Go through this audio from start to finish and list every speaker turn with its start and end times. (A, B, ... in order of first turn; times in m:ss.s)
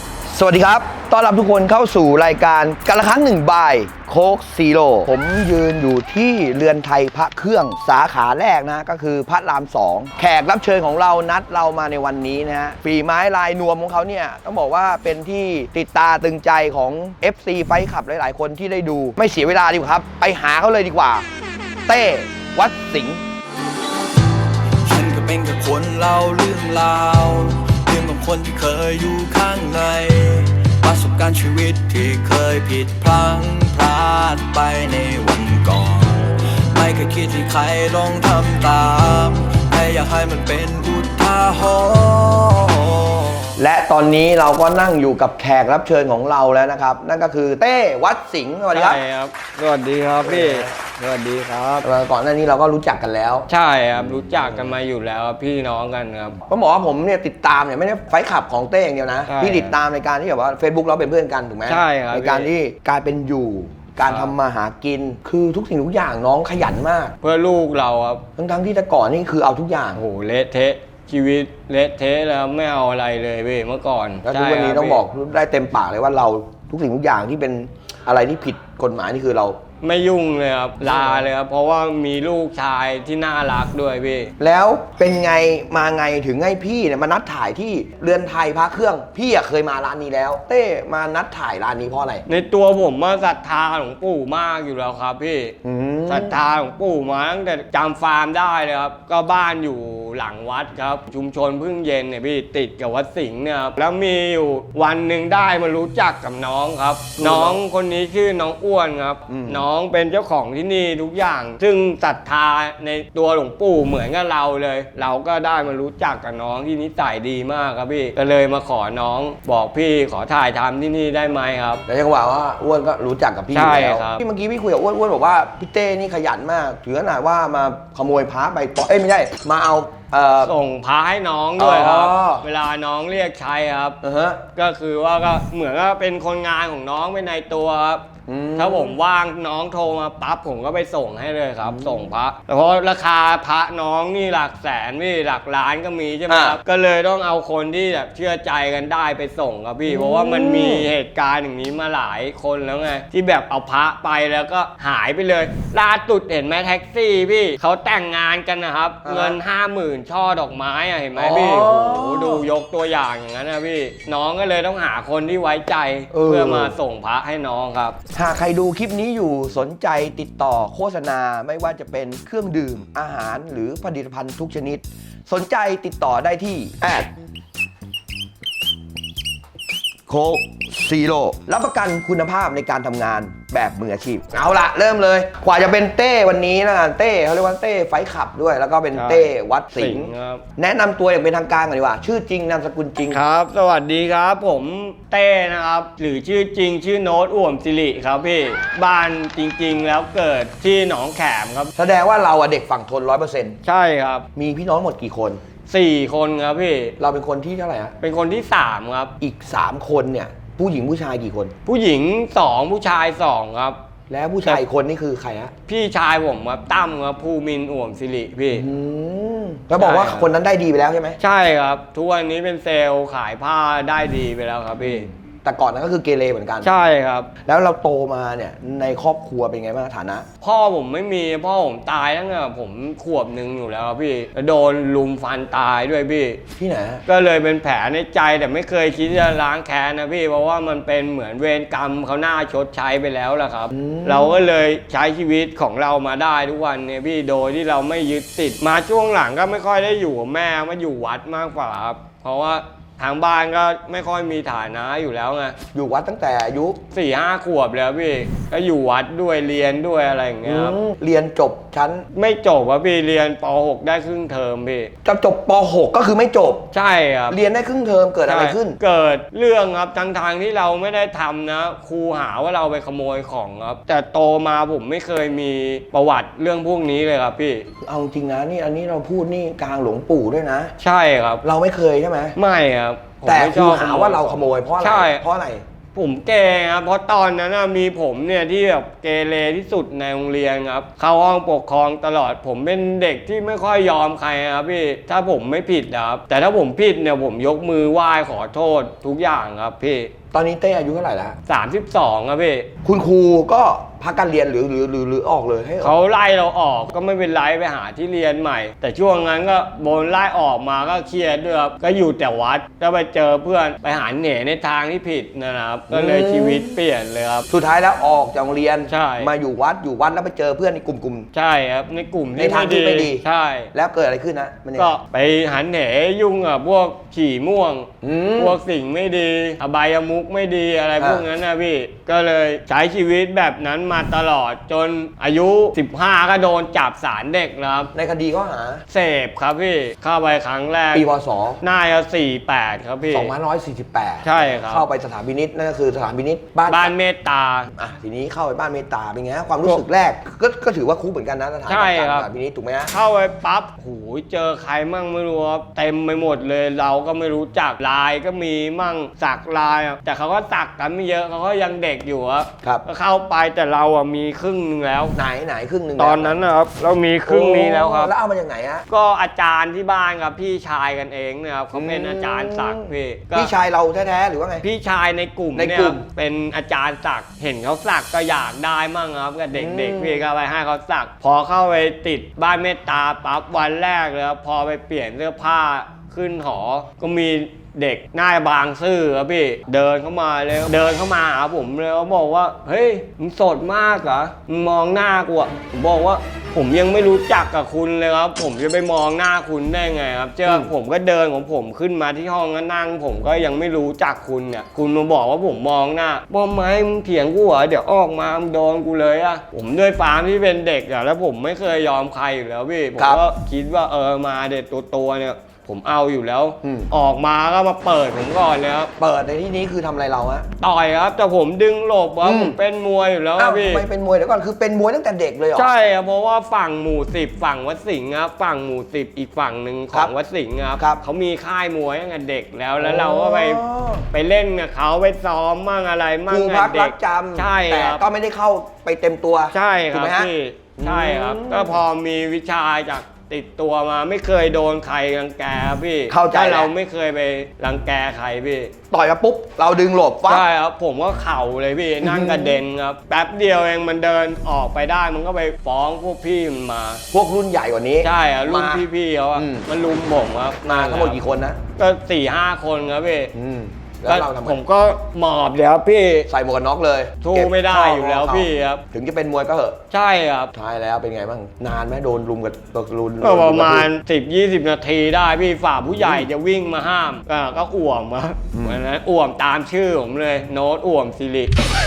0:00.3-0:21.3 A
0:21.9-0:23.2 A
0:24.8-0:43.5 B
0:43.6-0:49.0 A
0:48.7-0:51.9 C
0:50.2-0:50.7 A
0:51.8-0:53.5 A
0:53.5-0:56.4 C
0:54.0-0:54.7 A
0:56.4-1:07.2 A
0:59.3-0:59.7 C
1:01.7-1:02.5 C
1:04.1-1:04.3 C
1:07.2-1:08.2 C
1:08.4-1:10.0 A
1:10.0-1:15.0 C
1:14.2-1:19.6 A
1:19.8-1:24.3 C
1:20.8-1:21.3 A
1:24.4-1:32.2 A
1:32.3-1:35.6 C
1:35.6-1:36.4 A
1:36.1-2:01.8 C
1:47.2-1:47.6 A
1:49.3-1:49.7 A
2:01.9-2:10.5 A
2:03.5-2:04.2 C
2:10.4-2:14.0 C
2:11.6-2:12.4 A
2:14.0-2:14.4 A
2:14.6-2:48.0 C
2:18.3-2:19.0 A
2:21.6-2:22.1 A
2:26.3-2:26.6 A
2:29.9-2:30.9 A
2:39.0-2:39.4 A
2:41.2-2:42.5 A
2:46.1-2:46.8 A
2:48.1-2:57.1 A
3:00.1-3:13.2 A
3:08.9-3:10.4 C
3:13.1-3:21.7 C
3:21.8-3:23.6 A
3:23.6-3:24.3 C
3:24.4-3:25.4 A
3:25.7-3:27.0 C
3:27.0-3:28.0 A
3:28.0-3:29.1 C
3:29.2-3:31.5 A
3:31.7-3:33.8 C
3:34.1-3:35.5 A
3:35.7-3:38.7 C
3:38.5-3:41.2 A
3:39.8-3:40.3 C
3:41.2-3:45.1 C
3:44.8-3:46.7 A
3:46.6-3:47.3 C
3:47.4-3:50.3 A
3:50.4-3:56.4 C
3:56.6-3:57.0 A
3:57.1-4:15.6 C
4:03.7-4:04.4 A
4:15.7-4:16.8 A
4:16.9-4:20.8 C
4:20.4-4:22.1 A
4:22.1-4:24.9 C
4:25.0-4:26.7 A
4:26.7-4:27.4 C
4:27.3-4:28.8 A
4:28.3-4:37.7 C
4:37.8-4:40.7 A
4:40.8-4:41.4 C
4:41.4-4:42.4 A
4:42.4-4:45.2 C
4:43.2-4:45.6 A
4:45.9-5:00.1 C
5:00.3-5:01.4 A
5:01.5-5:02.7 C
5:02.8-5:05.9 A
5:05.8-5:17.5 C
5:15.9-5:16.7 A
5:17.5-5:21.3 A
5:18.9-5:19.3 C
5:21.3-5:23.7 C
5:22.4-5:24.9 A
5:24.8-5:37.9 C
5:28.0-5:28.6 A
5:31.0-5:31.2 A
5:37.9-5:38.8 A
5:38.9-5:41.1 C
5:40.9-5:41.6 A
5:41.6-5:43.3 C
5:43.1-5:46.9 A
5:44.2-5:44.8 C
5:46.7-5:47.7 C
5:47.7-5:52.9 A
5:51.7-5:52.3 C
5:52.9-6:05.2 C
6:05.2-6:06.4 A
6:06.0-6:08.1 C
6:07.3-6:08.8 A
6:08.9-6:13.5 C
6:11.7-6:14.6 A
6:14.6-6:58.9 C
6:15.6-6:16.0 A
6:19.5-6:20.3 A
6:53.0-6:53.2 A
6:56.6-6:56.9 A
6:59.0-7:00.5 A
7:00.6-7:03.8 C
7:02.2-7:02.6 A
7:03.4-7:05.7 A
7:05.6-7:18.0 C
7:12.8-7:14.1 A
7:16.3-7:21.8 A
7:19.5-7:28.7 C
7:26.1-7:26.7 A
7:28.9-7:30.5 A
7:30.3-7:37.0 C
7:32.0-7:32.6 A
7:37.1-7:39.7 A
7:38.0-7:41.2 C
7:40.6-7:41.6 A
7:41.8-7:43.3 C
7:43.3-7:44.6 A
7:44.1-7:46.3 C
7:46.3-7:49.8 A
7:47.2-7:48.8 C
7:49.9-7:50.5 C
7:50.5-7:53.9 A
7:53.2-8:01.6 C
7:56.0-7:56.2 A
7:58.5-7:58.8 A